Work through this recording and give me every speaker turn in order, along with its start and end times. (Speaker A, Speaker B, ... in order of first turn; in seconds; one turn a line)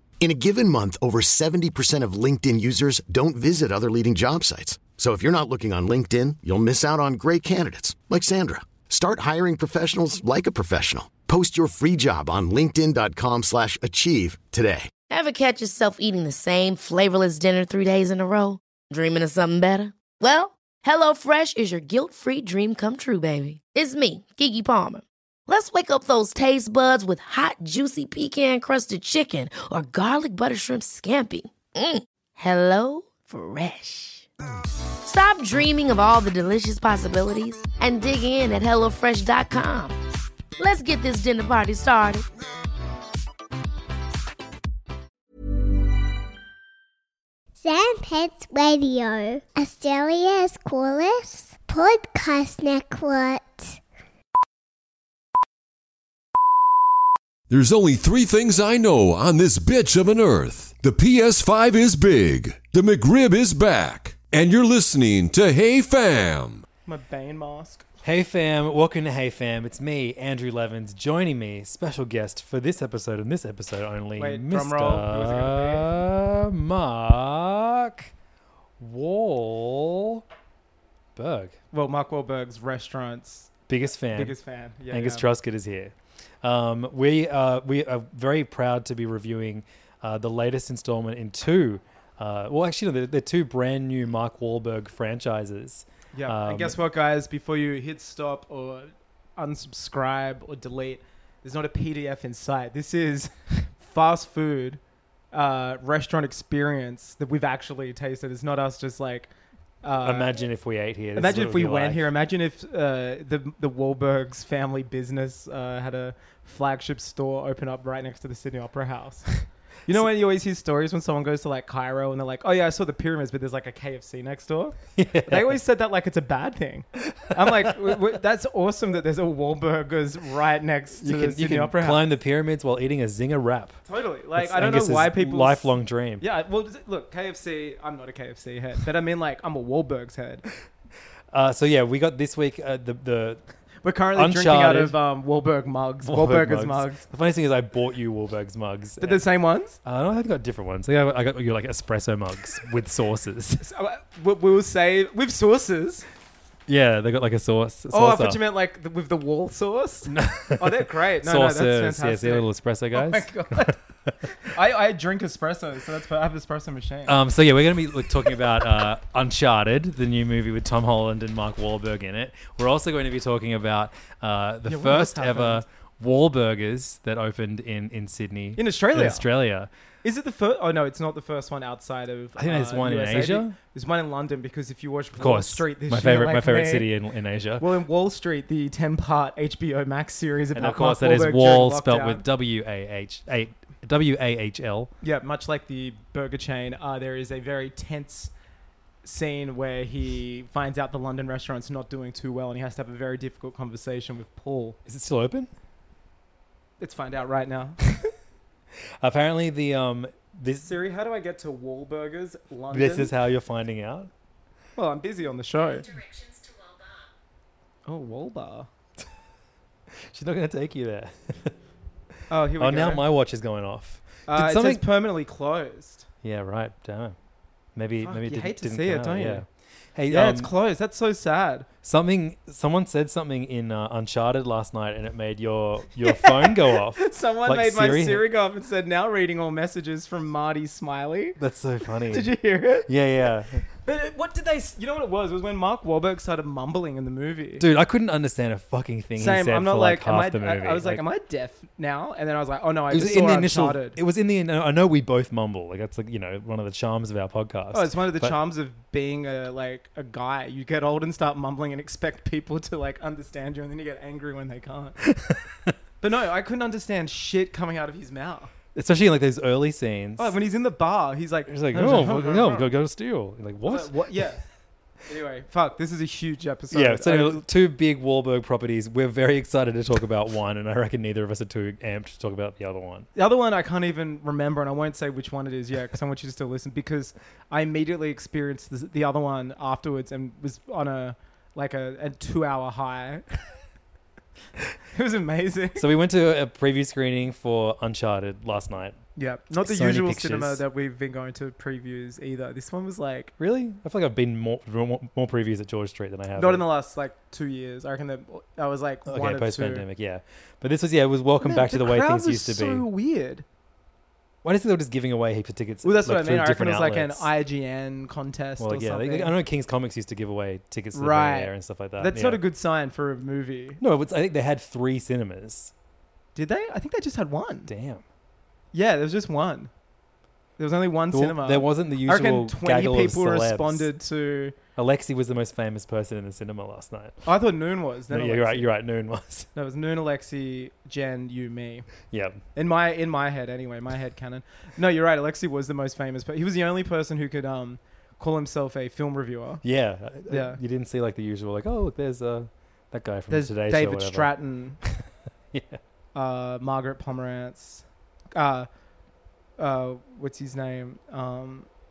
Speaker A: 0.2-14.9
Speaker B: 15.1-34.3
Speaker B: 35.0-40.0
Speaker B: 40.6-42.2
Speaker C: 47.6-53.8
Speaker D: 57.5-66.7
Speaker E: 66.9-67.9
Speaker F: 68.0-78.1
Speaker E: 74.2-75.9
Speaker F: 78.8-80.2
Speaker F: 81.2-81.6
Speaker E: 81.7-83.5
Speaker F: 83.7-84.4
Speaker E: 84.1-85.3
Speaker F: 84.9-96.8
Speaker E: 96.1-104.8
Speaker E: 105.3-109.3
Speaker E: 109.8-110.4
Speaker F: 110.0-112.1
Speaker E: 111.2-132.0
Speaker F: 125.0-125.6
Speaker F: 127.1-128.0
Speaker F: 131.0-133.8
Speaker E: 133.9-140.5
Speaker F: 134.4-136.2
Speaker F: 141.3-143.4
Speaker E: 143.8-147.1
Speaker F: 144.1-145.0
Speaker F: 146.1-149.2
Speaker E: 149.0-149.8
Speaker F: 149.8-153.7
Speaker E: 153.6-156.1
Speaker F: 156.7-158.4
Speaker E: 157.9-163.8
Speaker F: 160.1-163.7
Speaker E: 164.3-167.2
Speaker F: 167.1-179.7
Speaker E: 174.7-175.6
Speaker E: 178.6-179.3
Speaker E: 180.0-186.9
Speaker F: 182.4-183.6
Speaker F: 185.2-187.7
Speaker E: 187.6-192.2
Speaker F: 190.5-194.9
Speaker E: 195.0-198.3
Speaker E: 199.0-204.8
Speaker F: 204.9-205.5
Speaker E: 206.8-207.9
Speaker F: 209.0-210.7
Speaker E: 210.7-213.1
Speaker F: 212.7-214.1
Speaker E: 214.8-216.0
Speaker E: 217.9-218.7
Speaker F: 219.9-221.6
Speaker E: 222.3-223.0
Speaker F: 222.6-224.8
Speaker E: 224.3-226.1
Speaker F: 226.2-227.2
Speaker F: 227.8-230.5
Speaker E: 228.0-229.4
Speaker E: 230.1-231.7
Speaker F: 231.8-238.3
Speaker E: 236.0-241.4
Speaker F: 241.4-242.3
Speaker E: 242.1-242.9
Speaker F: 242.9-243.6
Speaker E: 243.8-247.7
Speaker F: 247.6-251.0
Speaker E: 249.2-254.0
Speaker F: 252.9-258.4
Speaker E: 257.7-265.0
Speaker F: 265.1-265.7
Speaker E: 266.0-268.5
Speaker F: 268.7-270.3
Speaker E: 270.2-272.7
Speaker F: 271.5-274.2
Speaker E: 273.6-274.4
Speaker E: 275.1-277.4
Speaker F: 276.7-283.1
Speaker E: 283.2-293.2
Speaker E: 294.9-295.9
Speaker F: 295.8-299.0
Speaker E: 299.2-303.3
Speaker F: 299.5-300.6
Speaker F: 303.4-306.7
Speaker E: 306.4-309.9
Speaker F: 309.1-312.9
Speaker E: 311.4-313.4
Speaker F: 314.4-317.3
Speaker E: 315.8-319.4
Speaker F: 318.6-322.4
Speaker E: 320.9-323.8
Speaker F: 323.8-325.7
Speaker E: 326.4-327.7
Speaker F: 327.7-328.0
Speaker E: 328.7-329.7
Speaker E: 330.6-334.6
Speaker F: 331.1-333.9
Speaker F: 334.8-337.3
Speaker E: 337.2-338.7
Speaker F: 338.1-339.5
Speaker E: 339.6-341.9
Speaker F: 342.1-342.4
Speaker E: 342.6-349.6
Speaker F: 349.6-355.8
Speaker E: 350.3-350.6
Speaker E: 353.3-354.8
Speaker E: 356.1-358.7
Speaker E: 359.6-361.7